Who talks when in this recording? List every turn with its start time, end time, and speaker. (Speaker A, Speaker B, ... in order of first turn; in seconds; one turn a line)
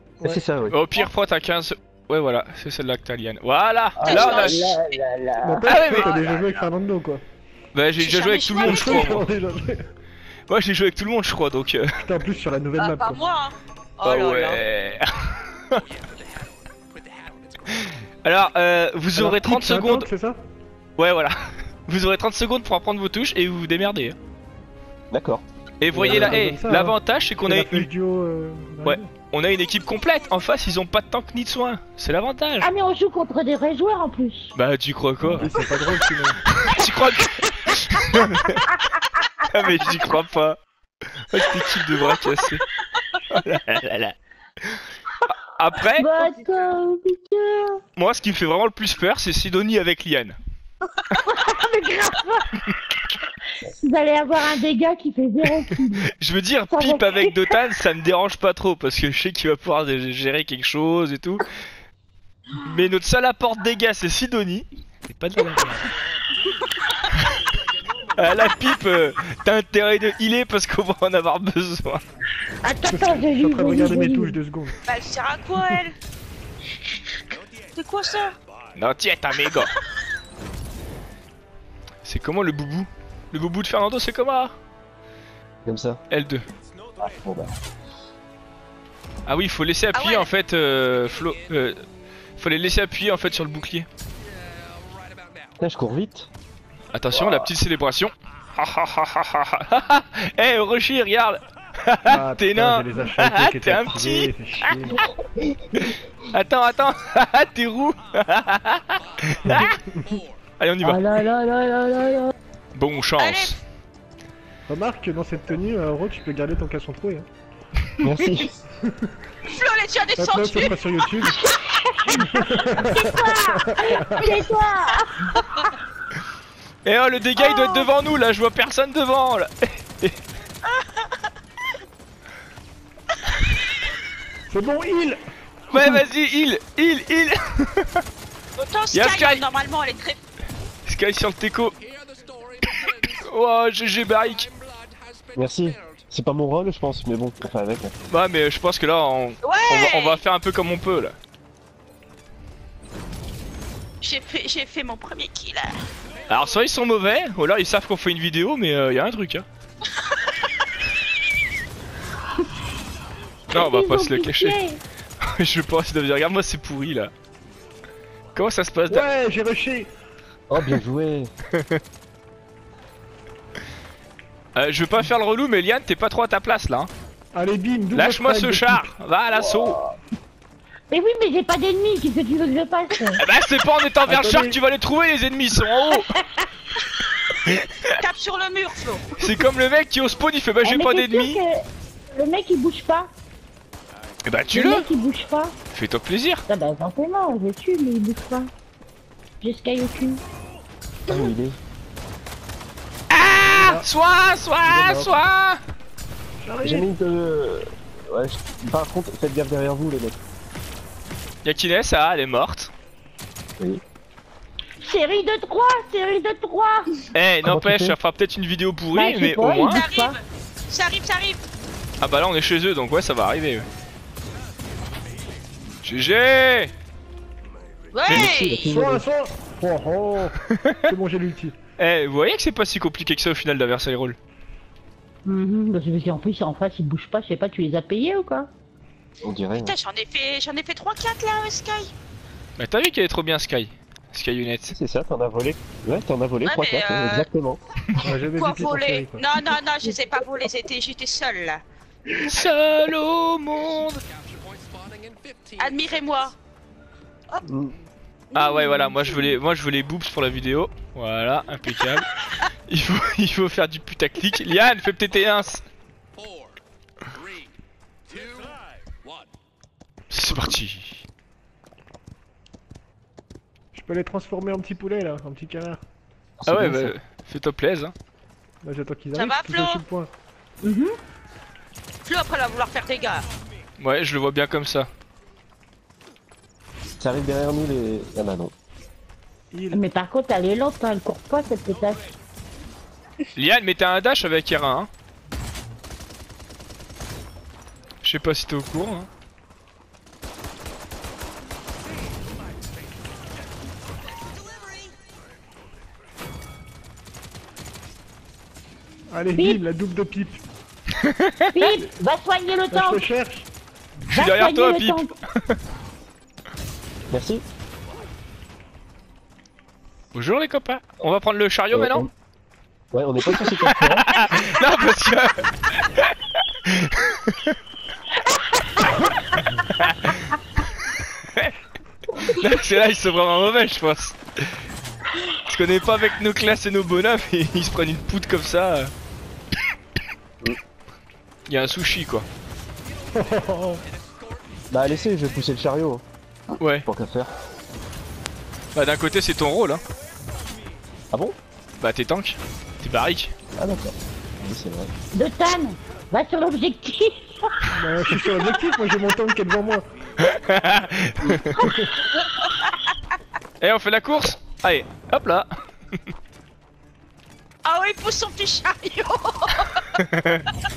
Speaker A: 0.2-0.8
Speaker B: 0.7-4.7
Speaker C: 4.0-5.9
Speaker D: 4.0-4.6
Speaker E: 5.4-7.2
Speaker B: 5.7-6.3
Speaker B: 7.7-9.3
Speaker D: 8.0-9.1
Speaker E: 8.6-9.8
Speaker B: 10.5-11.9
Speaker E: 12.0-13.2
Speaker D: 12.8-14.6
Speaker B: 14.0-15.8
Speaker B: 18.2-20.1
Speaker E: 19.1-20.4
Speaker B: 21.0-21.4
Speaker B: 21.9-24.2
Speaker A: 25.1-25.4
Speaker B: 25.8-27.9
Speaker A: 25.9-26.4
Speaker E: 25.9-29.1
Speaker B: 28.8-32.7
Speaker C: 32.6-34.5
Speaker B: 34.5-35.5
Speaker A: 35.2-35.5
Speaker E: 35.4-36.5
Speaker B: 36.6-38.7
Speaker B: 39.5-40.6
Speaker B: 41.2-42.6
Speaker B: 43.3-44.1
Speaker B: 45.3-46.1
Speaker C: 46.0-47.8
Speaker B: 48.0-50.4
Speaker C: 51.1-52.7
Speaker C: 53.6-56.1
Speaker B: 56.2-61.5
Speaker C: 56.7-57.3
Speaker B: 62.6-65.9
Speaker B: 68.2-72.0
Speaker C: 72.6-74.4
Speaker E: 72.9-74.8
Speaker D: 74.8-76.0
Speaker D: 77.8-78.4
Speaker B: 78.8-79.7
Speaker B: 82.0-84.5
Speaker A: 85.7-86.0
Speaker B: 86.1-86.5
Speaker A: 87.0-87.5
Speaker B: 89.3-91.8
Speaker D: 89.9-90.3
Speaker B: 92.4-93.9
Speaker A: 95.6-96.3
Speaker B: 96.9-105.0
Speaker A: 97.1-97.5
Speaker E: 102.1-105.0
Speaker B: 105.8-109.8
Speaker E: 109.5-110.2
Speaker B: 110.6-111.1
Speaker C: 110.8-112.3
Speaker B: 112.8-113.6
Speaker D: 113.2-113.6
Speaker E: 114.7-117.3
Speaker A: 118.0-118.5
Speaker D: 119.4-120.8
Speaker E: 120.2-121.4
Speaker C: 121.4-125.7
Speaker E: 122.2-124.4
Speaker B: 126.8-130.2
Speaker D: 127.4-127.9
Speaker D: 130.7-131.1
Speaker E: 134.5-135.2
Speaker B: 135.7-138.0
Speaker A: 135.7-136.0
Speaker D: 138.6-140.2
Speaker B: 138.9-139.4
Speaker B: 140.9-141.8
Speaker B: 142.7-144.5
Speaker A: 145.3-147.9
Speaker B: 148.1-151.2
Speaker D: 149.4-150.2
Speaker D: 154.0-155.8
Speaker B: 156.3-159.4
Speaker D: 160.0-160.4
Speaker B: 163.5-164.6
Speaker C: 163.5-164.8
Speaker B: 165.2-167.1
Speaker B: 168.3-169.1
Speaker E: 168.9-169.9
Speaker A: 170.5-171.3
Speaker B: 171.5-171.8
Speaker B: 174.6-176.9
Speaker E: 177.3-178.9
Speaker B: 177.9-179.8
Speaker C: 180.9-183.2
Speaker B: 183.2-186.1
Speaker E: 184.1-184.6
Speaker C: 185.9-186.5
Speaker B: 187.5-187.9
Speaker D: 188.0-189.3
Speaker B: 189.2-191.4
Speaker C: 190.7-193.1
Speaker B: 194.2-194.9
Speaker C: 194.5-195.6
Speaker B: 195.7-196.4
Speaker C: 196.5-198.5
Speaker C: 199.4-200.2
Speaker A: 201.1-201.6
Speaker B: 203.1-205.6
Speaker E: 203.4-203.9
Speaker E: 204.7-205.2
Speaker E: 206.4-206.9
Speaker A: 206.6-210.2
Speaker B: 211.4-212.7
Speaker C: 214.8-216.9
Speaker B: 217.1-219.8
Speaker A: 217.4-218.0
Speaker C: 218.9-220.2
Speaker D: 219.7-220.2
Speaker D: 220.7-221.4
Speaker B: 222.0-223.7
Speaker B: 225.8-226.7
Speaker D: 227.9-228.7
Speaker A: 228.1-229.1
Speaker E: 228.7-231.6
Speaker B: 231.8-234.2
Speaker C: 235.2-238.5
Speaker A: 239.2-239.8
Speaker D: 239.6-241.9
Speaker B: 242.6-244.8
Speaker A: 244.7-247.6
Speaker D: 246.4-247.3
Speaker E: 248.0-249.3
Speaker D: 248.3-251.6
Speaker B: 252.2-254.0
Speaker D: 255.6-256.4
Speaker A: 257.5-257.8
Speaker D: 258.3-259.3
Speaker B: 258.4-262.1
Speaker B: 262.7-265.6
Speaker B: 270.1-271.0
Speaker E: 273.7-275.8
Speaker A: 276.4-277.0
Speaker B: 276.5-277.9
Speaker E: 278.6-280.1
Speaker D: 279.1-279.8
Speaker C: 280.6-280.9
Speaker D: 282.1-283.3
Speaker B: 283.8-284.9
Speaker A: 287.0-288.5
Speaker E: 289.5-289.8
Speaker C: 289.7-292.1
Speaker B: 293.4-294.9
Speaker B: 298.0-299.1
Speaker E: 309.1-310.4
Speaker C: 309.4-309.6
Speaker B: 311.0-311.5
Speaker C: 311.5-313.1
Speaker E: 312.7-313.5
Speaker B: 314.1-315.6
Speaker C: 314.1-315.1
Speaker A: 317.1-317.4
Speaker B: 320.1-322.0
Speaker A: 321.7-322.1
Speaker A: 322.9-324.1
Speaker B: 323.4-326.1
Speaker B: 326.7-327.6
Speaker B: 329.8-330.3
Speaker B: 332.2-334.6
Speaker B: 335.4-338.9
Speaker B: 341.5-342.3
Speaker E: 343.1-343.8
Speaker A: 344.7-346.0
Speaker B: 346.6-346.9
Speaker A: 346.9-347.3
Speaker B: 348.7-349.8
Speaker B: 351.8-353.3
Speaker A: 353.6-354.9
Speaker C: 355.1-357.5
Speaker E: 357.7-359.8
Speaker B: 360.3-361.6
Speaker E: 361.5-361.9
Speaker D: 362.4-362.9
Speaker B: 363.6-365.5
Speaker D: 367.6-369.9
Speaker B: 370.0-370.5